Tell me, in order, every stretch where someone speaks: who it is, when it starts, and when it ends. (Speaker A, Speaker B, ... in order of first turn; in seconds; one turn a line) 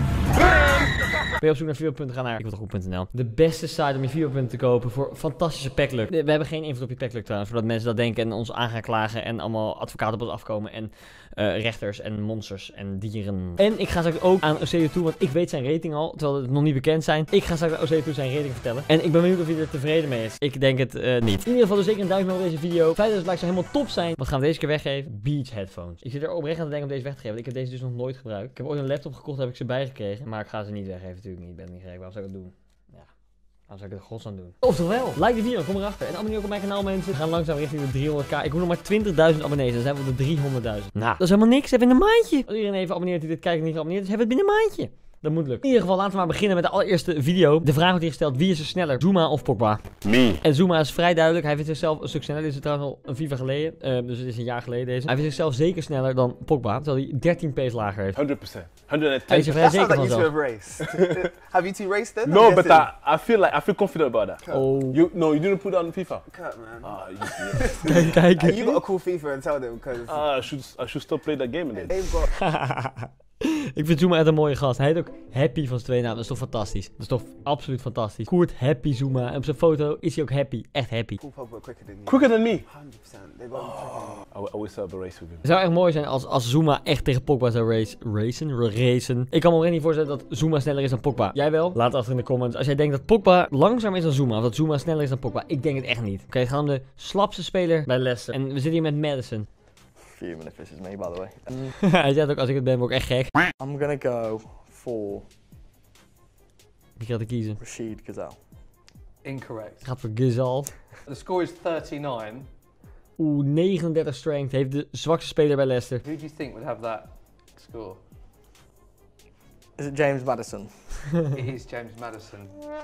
Speaker A: 1.4-33.1
Speaker A: 33.7-58.2
Speaker B: 58.1-59.6
Speaker A: 59.3-60.4
Speaker C: 59.3-62.9
Speaker B: 62.2-66.3
Speaker C: 64.4-64.7
Speaker A: 64.5-65.0
Speaker C: 66.3-67.0
Speaker B: 66.8-67.8
Speaker C: 67.6-70.2
Speaker A: 67.8-68.8
Speaker B: 70.0-72.0
Speaker C: 71.7-72.3
Speaker A: 72.4-81.2
Speaker C: 81.2-84.3
Speaker B: 82.1-82.7
Speaker B: 84.3-85.4
Speaker A: 85.4-99.5
Speaker D: 100.0-101.8
Speaker A: 101.8-103.3
Speaker D: 103.6-105.3
Speaker A: 107.0-107.6
Speaker D: 107.6-108.4
Speaker E: 109.2-109.9
Speaker A: 109.8-110.7
Speaker E: 111.1-112.5
Speaker A: 113.2-116.0
Speaker E: 116.0-118.0
Speaker D: 119.8-121.2
Speaker E: 121.3-122.5